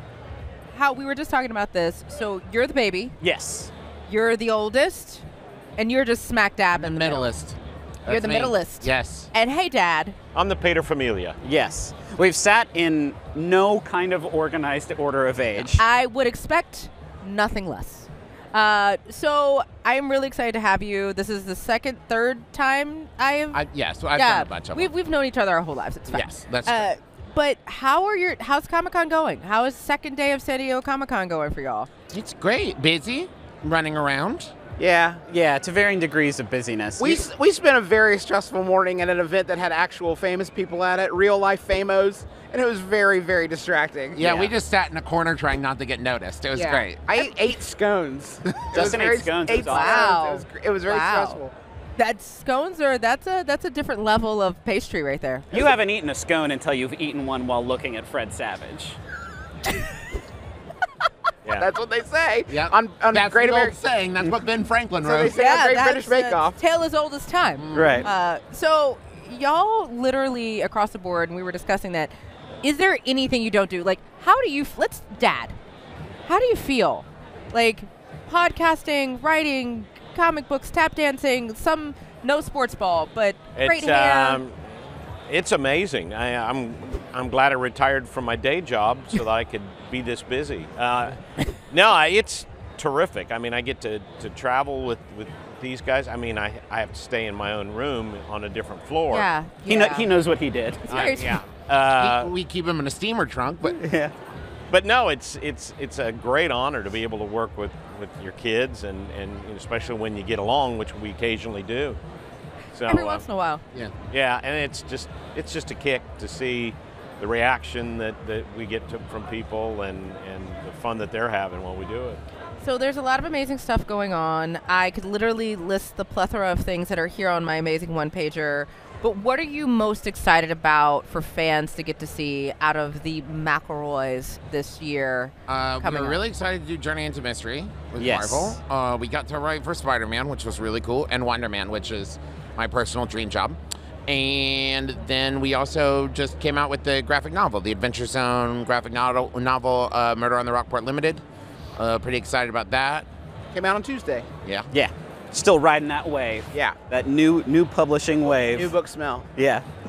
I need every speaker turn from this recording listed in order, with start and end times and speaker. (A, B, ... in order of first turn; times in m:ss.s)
0:00.7-0:03.2 A
0:03.2-0:03.7 B
0:04.1-0:05.2 A
0:05.8-0:07.3 A
0:06.8-0:09.3 C
0:08.1-0:10.2 A
0:10.3-0:11.4 D
0:11.4-0:15.8 B
0:15.8-0:31.9 A
0:23.5-0:24.9 C
0:26.1-0:26.9 C
0:32.1-0:34.5 C
0:34.8-0:35.2 E
0:35.3-0:37.2 B
0:37.0-0:44.3 E
0:44.2-0:47.2 C
0:44.2-0:44.5 B
0:46.5-0:51.5 E
0:48.7-0:50.0 B
0:49.6-0:51.4 A
0:52.0-0:55.6 A
0:55.5-0:59.0 B
1:01.6-1:03.8 E
1:02.5-1:05.4 C
1:05.0-1:06.6 E
1:05.3-1:12.1 A
1:07.6-1:08.1 C
1:07.7-1:08.1 B
1:12.6-1:15.6 A
1:16.3-1:24.4 A
1:23.6-1:24.6 D
1:25.3-1:31.2 D
1:31.7-1:39.3 D
1:39.1-1:40.1 A
1:39.7-1:41.2 B
1:40.9-1:41.4 A
1:40.9-1:42.3 D
1:41.8-1:43.8 C
1:43.7-1:44.1 B
1:44.7-1:52.0 D
1:52.7-1:53.2 D
1:52.9-1:53.6 A
1:54.1-2:02.2 D
2:02.6-2:16.2 A
2:15.5-2:31.2 C
2:18.0-2:18.6 B
2:31.8-2:33.1 C
2:33.5-2:34.3 E
2:34.7-2:38.7 B
2:36.5-2:36.8 E
2:38.5-2:39.3 E
2:39.4-2:39.6 B